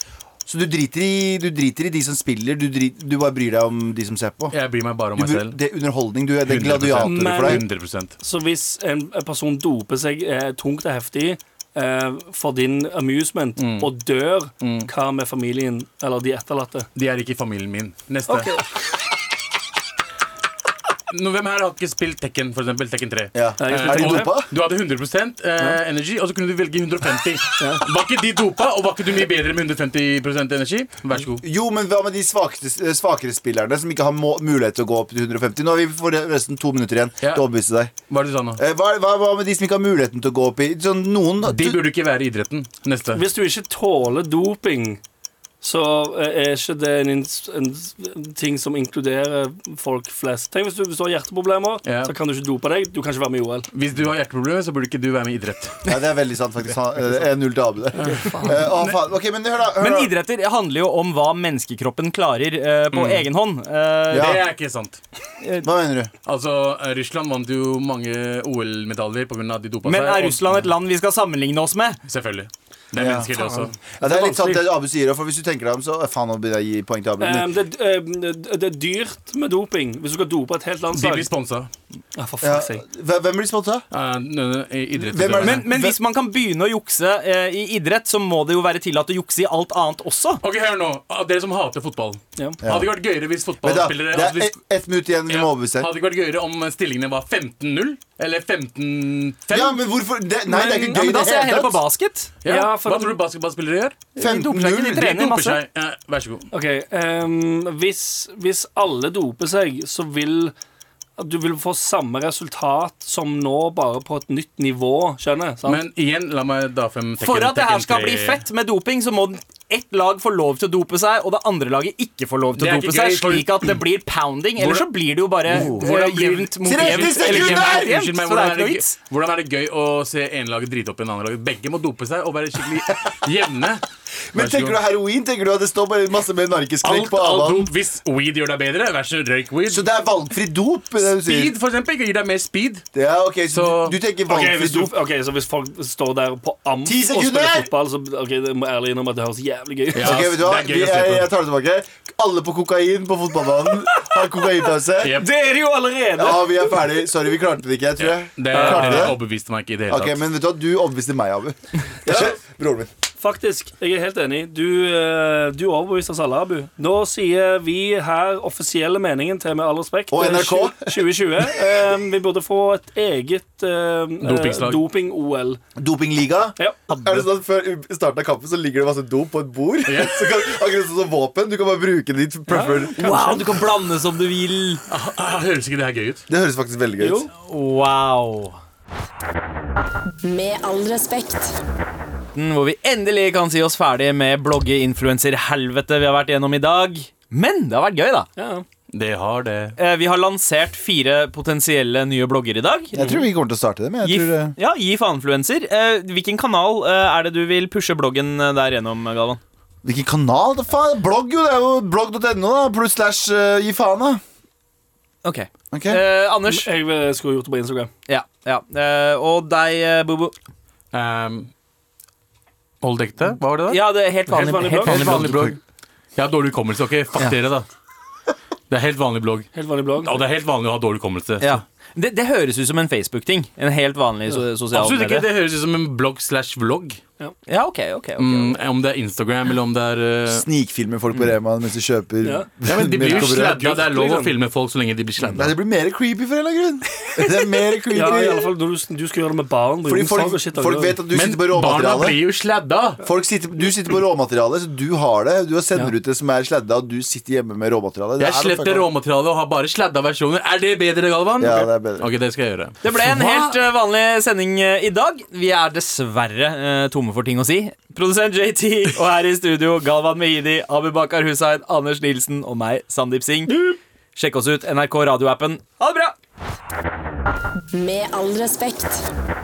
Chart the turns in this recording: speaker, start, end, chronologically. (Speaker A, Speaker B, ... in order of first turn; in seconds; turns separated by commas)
Speaker A: 0.5-4.5, Speaker B: 4.5-5.6, Speaker A: 5.2-7.6, Speaker B: 6.5-8.1, Speaker C: 7.0-7.7, Speaker C: 8.2-16.9, Speaker B: 13.6-13.9, Speaker B: 14.6-14.9, Speaker B: 16.9-18.5, Speaker C: 18.3-18.6, Speaker B: 21.1-31.4, Speaker A: 23.3-24.5, Speaker C: 23.6-24.3, Speaker A: 31.3-37.9, Speaker B: 38.1-38.6, Speaker A: 38.6-41.8, Speaker B: 41.4-43.2, Speaker C: 43.1-45.0, Speaker C: 45.6-53.7, Speaker B: 51.8-52.1, Speaker B: 53.7-55.9, Speaker A: 55.9-60.1, Speaker B: 58.0-59.0, Speaker C: 58.3-58.6, Speaker D: 59.8-64.4, Speaker B: 62.9-63.2, Speaker A: 64.1-64.4, Speaker B: 64.1-65.0, Speaker D: 65.4-65.7, Speaker A: 65.6-66.1, Speaker B: 66.2-70.7, Speaker D: 69.8-72.0, Speaker B: 72.1-73.8, Speaker A: 73.0-77.5, Speaker C: 73.4-74.6, Speaker C: 77.2-81.3, Speaker B: 80.9-81.7, Speaker C: 82.2-82.8, Speaker A: 82.4-83.9, Speaker B: 83.9-85.7, Speaker A: 85.0-86.0, Speaker D: 85.4-90.4, Speaker B: 90.4-94.5, Speaker A: 92.6-92.9, Speaker A: 93.6-95.9, Speaker B: 95.3-99.8, Speaker A: 99.5-101.8, Speaker D: 100.5-102.3, Speaker C: 100.5-101.0, Speaker B: 102.4-104.0, Speaker C: 102.5-103.2, Speaker D: 104.2-105.6, Speaker A: 104.2-105.0, Speaker B: 104.9-106.5, Speaker C: 106.5-110.5, Speaker C: 111.2-115.8, Speaker B: 115.7-118.4, Speaker D: 117.2-128.9, Speaker B: 122.6-123.8, Speaker B: 124.6-124.9, Speaker B: 125.5-133.8, Speaker A: 125.5-125.9, Speaker A: 126.6-128.0, Speaker A: 134.3-137.7, Speaker B: 134.3-134.8, Speaker B: 136.8-139.8, Speaker A: 139.7-141.5, Speaker B: 141.2-142.9, Speaker A: 142.9-144.9, Speaker B: 143.5-144.0, Speaker C: 144.3-150.2, Speaker A: 146.8-147.7, Speaker B: 149.9-151.3, Speaker A: 150.0-155.2, Speaker B: 155.0-155.3, Speaker C: 155.2-156.9, Speaker A: 156.2-159.2, Speaker B: 158.0-160.2, Speaker C: 158.5-159.1, Speaker A: 159.9-162.9, Speaker C: 162.1-162.4, Speaker C: 163.2-175.6, Speaker A: 170.1-171.7, Speaker B: 174.2-174.8, Speaker A: 175.8-183.4, Speaker B: 179.9-180.4, Speaker C: 182.5-183.4, Speaker D: 183.0-184.8, Speaker B: 184.9-186.2, Speaker A: 186.3-187.3, Speaker C: 187.0-187.3, Speaker D: 187.4-188.6, Speaker E: 190.2-191.6, Speaker D: 192.3-198.3, Speaker C: 198.4-198.7, Speaker B: 198.9-199.8, Speaker D: 199.8-202.9, Speaker A: 202.9-204.5, Speaker C: 203.0-203.3, Speaker D: 204.0-209.4, Speaker A: 209.8-214.2, Speaker D: 215.2-216.7, Speaker A: 215.7-216.0, Speaker C: 216.5-217.9, Speaker D: 218.1-220.3, Speaker B: 220.9-221.5, Speaker B: 222.8-223.8, Speaker D: 223.7-225.6, Speaker C: 224.3-225.3, Speaker B: 224.8-225.6, Speaker B: 226.2-227.7, Speaker B: 228.7-231.6, Speaker C: 229.5-230.2, Speaker D: 231.4-235.3, Speaker B: 234.7-237.0, Speaker D: 237.5-238.6, Speaker B: 238.2-240.5, Speaker A: 240.3-243.8, Speaker C: 242.2-242.5, Speaker B: 242.7-245.6, Speaker C: 243.0-244.3, Speaker A: 245.3-248.4, Speaker C: 247.9-251.0, Speaker A: 249.9-252.2, Speaker B: 251.1-253.0, Speaker A: 253.0-258.9, Speaker B: 258.2-263.5, Speaker A: 261.4-262.1, Speaker D: 262.8-276.1, Speaker E: 277.7-279.1